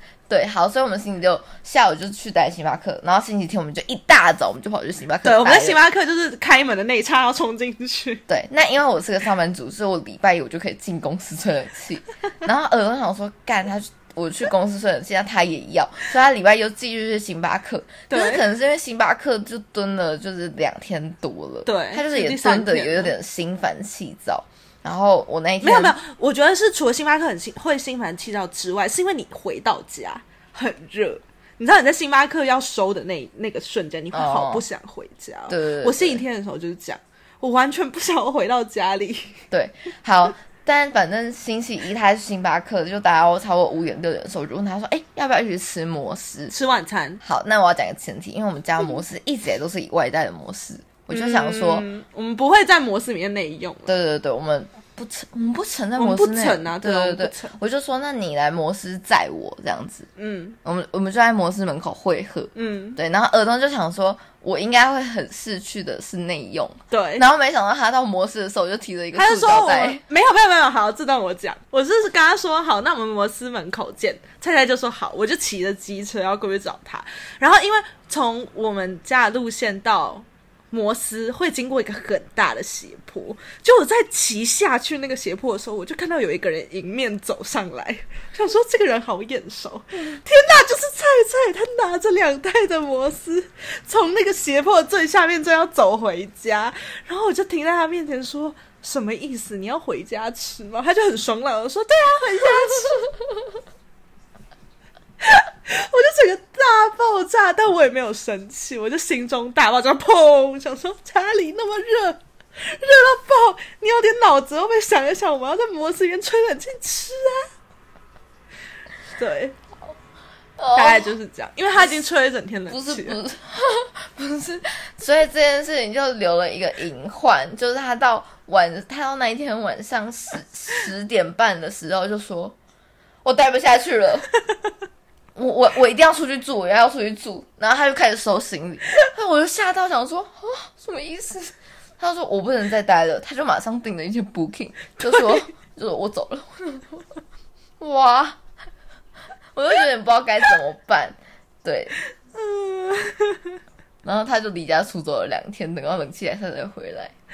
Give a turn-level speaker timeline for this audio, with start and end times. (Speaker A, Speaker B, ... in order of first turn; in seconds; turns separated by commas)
Speaker A: 0.3-5.8, Speaker B: 5.2-8.2, Speaker A: 8.3-25.9, Speaker B: 18.1-18.4, Speaker B: 21.6-23.1, Speaker B: 25.6-39.4, Speaker A: 34.1-34.6, Speaker A: 35.5-36.2, Speaker A: 39.5-46.5, Speaker B: 46.5-47.2, Speaker A: 47.2-51.9, Speaker B: 51.1-53.9, Speaker A: 53.9-60.1, Speaker B: 56.0-57.6, Speaker B: 60.1-60.6, Speaker A: 60.6-70.0, Speaker B: 62.5-63.0, Speaker B: 66.9-67.2, Speaker B: 69.1-103.2, Speaker B: 105.2-117.5, Speaker B: 119.1-119.5, Speaker A: 120.6-121.1, Speaker B: 120.7-123.2, Speaker A: 122.7-132.6, Speaker A: 133.2-134.3, Speaker A: 135.3-147.0, Speaker A: 147.8-148.4, Speaker A: 149.5-151.9, Speaker B: 152.3-153.6, Speaker A: 154.0-157.1